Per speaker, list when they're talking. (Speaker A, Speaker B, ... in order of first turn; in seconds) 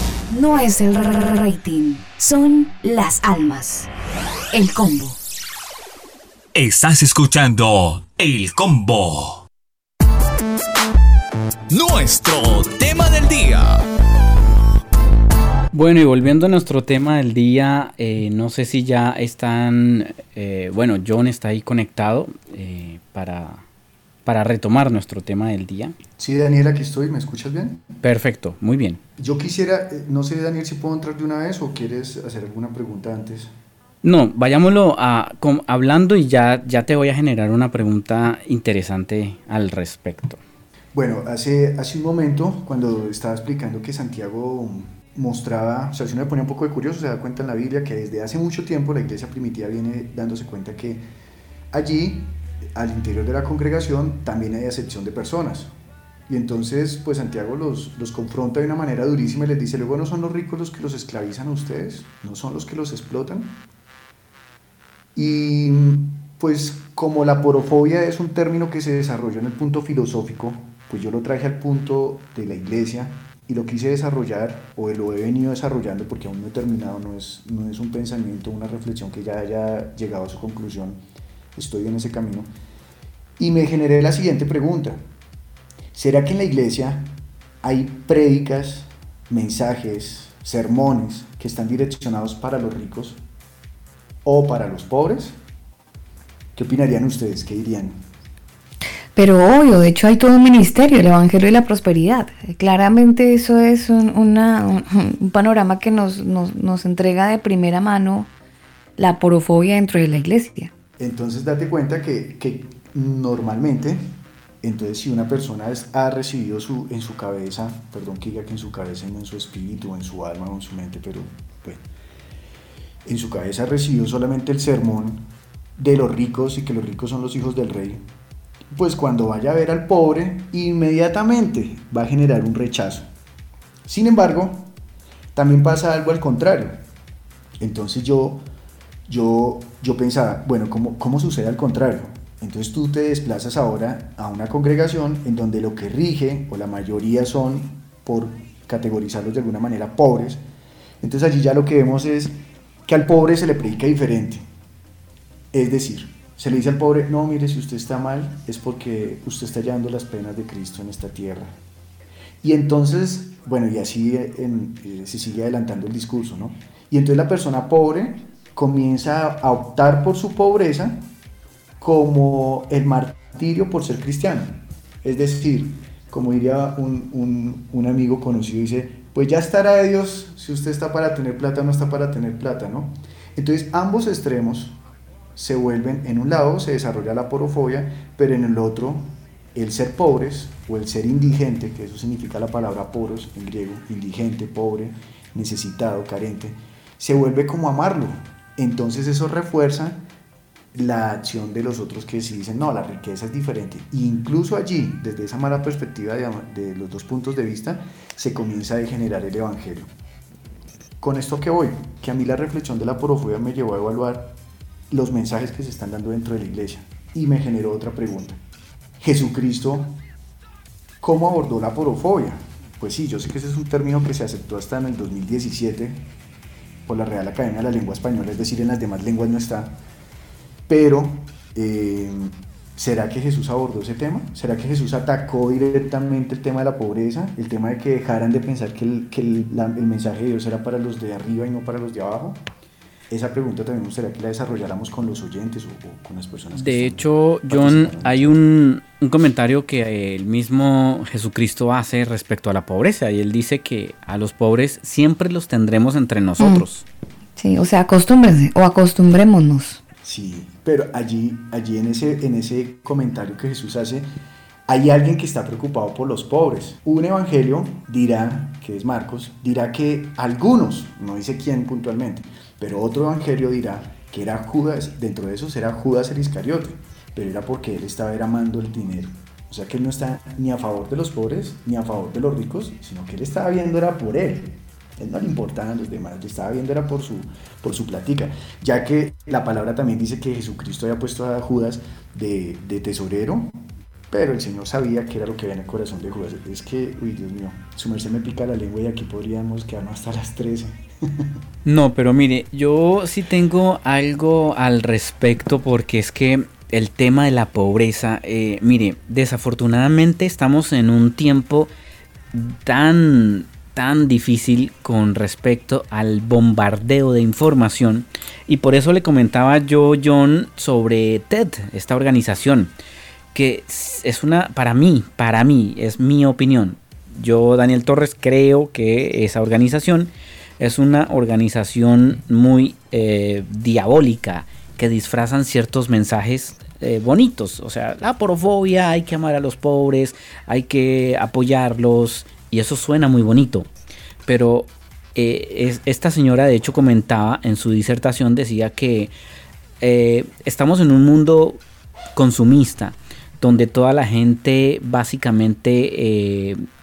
Speaker A: 0.3-3.9, 4.5-5.2
Speaker B: 6.5-9.5
Speaker C: 11.7-13.9
Speaker D: 15.7-23.6, 24.3-25.9, 28.0-29.0, 34.0-40.4, 246.6-256.9, 301.6-311.7, 312.3-322.7, 323.3-343.7, 344.3-349.1, 349.8-351.6, 352.1-356.6
Speaker E: 26.2-27.9, 29.2-33.5, 40.9-51.0, 51.7-55.7, 56.3-63.6, 65.2-81.0, 81.5-82.5, 83.4-85.0, 85.9-93.2, 94.2-95.4, 96.5-98.0, 111.0-121.8, 123.1-128.0, 128.7-133.1, 133.9-134.7, 135.3-136.8, 137.6-138.4, 139.1-150.4, 151.0-152.3, 152.9-154.4, 155.5-161.6, 162.4-171.1, 171.8-184.8, 185.4-200.0, 200.7-209.9, 211.0-214.3, 214.9-218.4, 219.0-220.0, 221.0-226.1, 226.9-229.8, 230.7-242.4, 243.1-248.4, 260.0-264.1, 264.7-293.6, 294.1-301.3
Speaker F: 99.2-108.3, 109.0-110.7, 256.4-256.6, 257.4-259.8